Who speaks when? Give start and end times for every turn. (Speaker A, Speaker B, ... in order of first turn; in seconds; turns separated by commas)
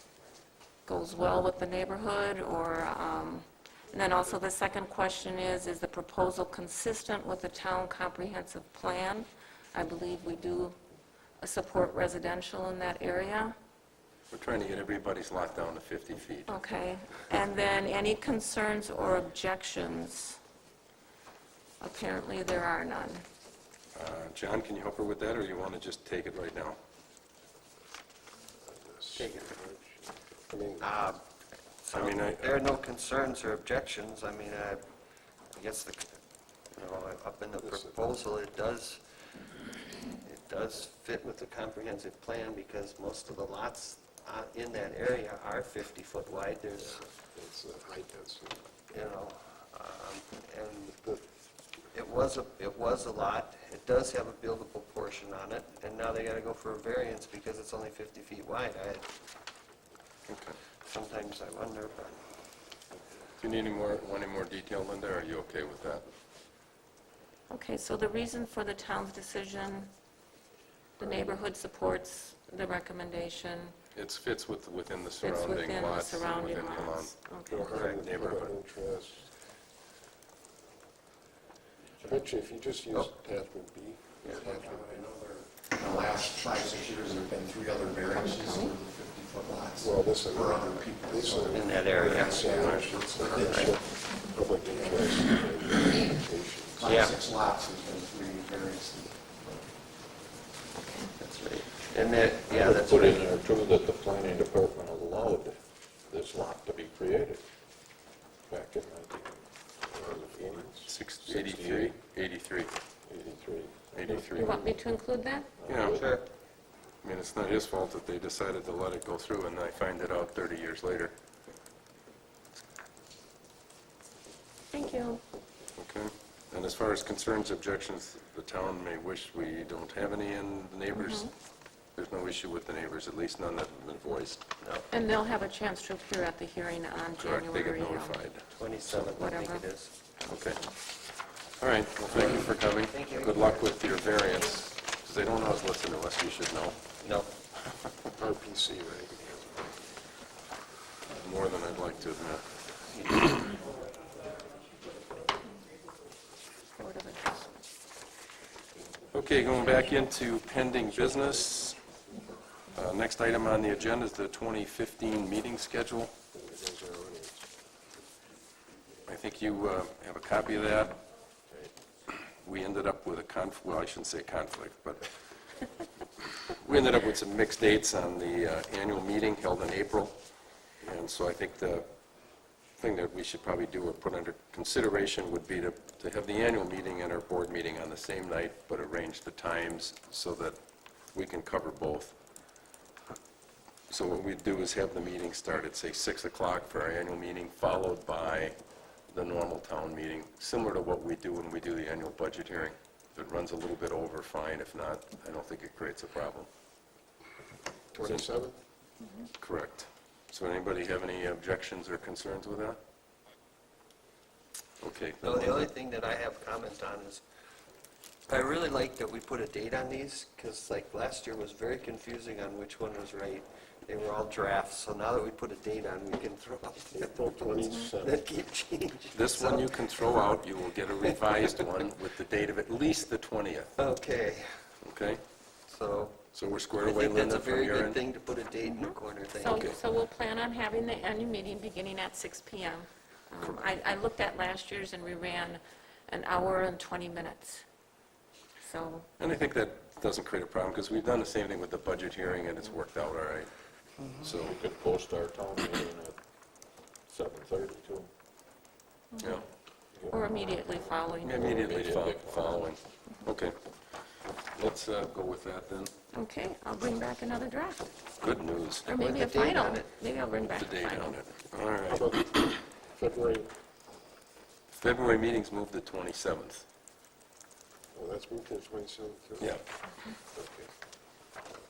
Speaker A: 0.8-10.8, Speaker A: 11.4-13.6, Speaker B: 14.3-16.5, Speaker A: 16.5-20.4, Speaker A: 21.8-23.2, Speaker B: 23.9-26.8, Speaker C: 28.7-31.0, Speaker D: 29.1-29.6, Speaker D: 30.8-31.2, Speaker D: 31.8-34.8, Speaker B: 31.9-32.6, Speaker D: 35.5-36.1, Speaker D: 36.7-39.0, Speaker C: 37.5-38.0, Speaker D: 40.2-47.0, Speaker C: 47.0-48.6, Speaker D: 48.9-51.0, Speaker C: 51.0-51.2, Speaker D: 51.9-59.1, Speaker B: 60.3-60.6, Speaker D: 60.8-62.2, Speaker B: 63.4-66.0, Speaker A: 67.5-69.9, Speaker A: 71.0-73.7, Speaker B: 73.9-78.5, Speaker A: 75.2-77.8, Speaker C: 77.5-79.3, Speaker D: 77.7-78.0, Speaker C: 82.0-85.1, Speaker D: 84.2-84.5, Speaker E: 84.3-93.7, Speaker A: 88.2-88.7, Speaker C: 89.8-91.7, Speaker D: 91.5-93.8, Speaker C: 92.2-96.9, Speaker B: 92.6-92.9, Speaker E: 96.7-99.6, Speaker D: 96.8-97.2, Speaker A: 100.8-101.1, Speaker D: 101.2-103.2, Speaker F: 102.5-107.4, Speaker F: 108.5-109.4, Speaker C: 110.0-110.8, Speaker F: 110.0-112.0, Speaker B: 110.8-112.7, Speaker F: 113.1-114.7, Speaker B: 113.9-114.6, Speaker A: 114.4-115.5, Speaker F: 115.6-116.2, Speaker B: 115.7-116.0, Speaker D: 115.8-116.2, Speaker B: 117.0-121.1, Speaker A: 124.7-125.2, Speaker B: 125.8-131.3, Speaker A: 130.9-131.3, Speaker B: 131.9-134.4, Speaker D: 134.6-134.9, Speaker A: 134.9-138.2, Speaker B: 137.1-139.1, Speaker D: 138.5-139.9, Speaker A: 139.0-139.7, Speaker A: 140.2-140.7, Speaker B: 140.3-140.6, Speaker B: 141.6-146.8, Speaker D: 142.1-143.7, Speaker D: 147.0-147.3, Speaker C: 148.1-149.6, Speaker B: 151.1-153.4, Speaker A: 156.8-157.5, Speaker B: 159.1-161.8, Speaker B: 162.7-166.1, Speaker C: 166.3-167.5, Speaker B: 169.1-171.0, Speaker B: 172.1-175.1, Speaker B: 176.5-180.2, Speaker B: 180.8-181.9, Speaker B: 182.8-190.6, Speaker B: 191.1-192.1, Speaker B: 193.9-198.6, Speaker B: 199.1-206.5, Speaker C: 207.9-208.6, Speaker B: 207.9-208.3, Speaker B: 209.4-212.8, Speaker B: 214.8-215.7, Speaker D: 215.2-217.2, Speaker D: 218.3-230.3, Speaker C: 226.8-228.3, Speaker B: 229.1-233.8, Speaker D: 230.8-231.5, Speaker D: 233.8-234.5, Speaker B: 234.8-235.2, Speaker D: 235.7-236.2, Speaker B: 236.3-238.0, Speaker D: 236.8-239.7, Speaker A: 238.6-247.6, Speaker A: 248.6-249.1, Speaker B: 249.2-253.5, Speaker B: 254.1-254.6, Speaker F: 254.3-256.2, Speaker F: 257.1-258.1, Speaker A: 259.1-259.4, Speaker F: 259.9-262.7, Speaker A: 260.1-261.6, Speaker B: 261.2-263.5, Speaker B: 264.5-265.9, Speaker A: 266.1-267.9, Speaker B: 268.2-268.9, Speaker A: 268.8-271.1, Speaker D: 268.9-269.9, Speaker B: 270.5-272.4, Speaker C: 271.8-273.5, Speaker B: 274.8-276.6, Speaker C: 277.9-279.6, Speaker C: 280.3-280.7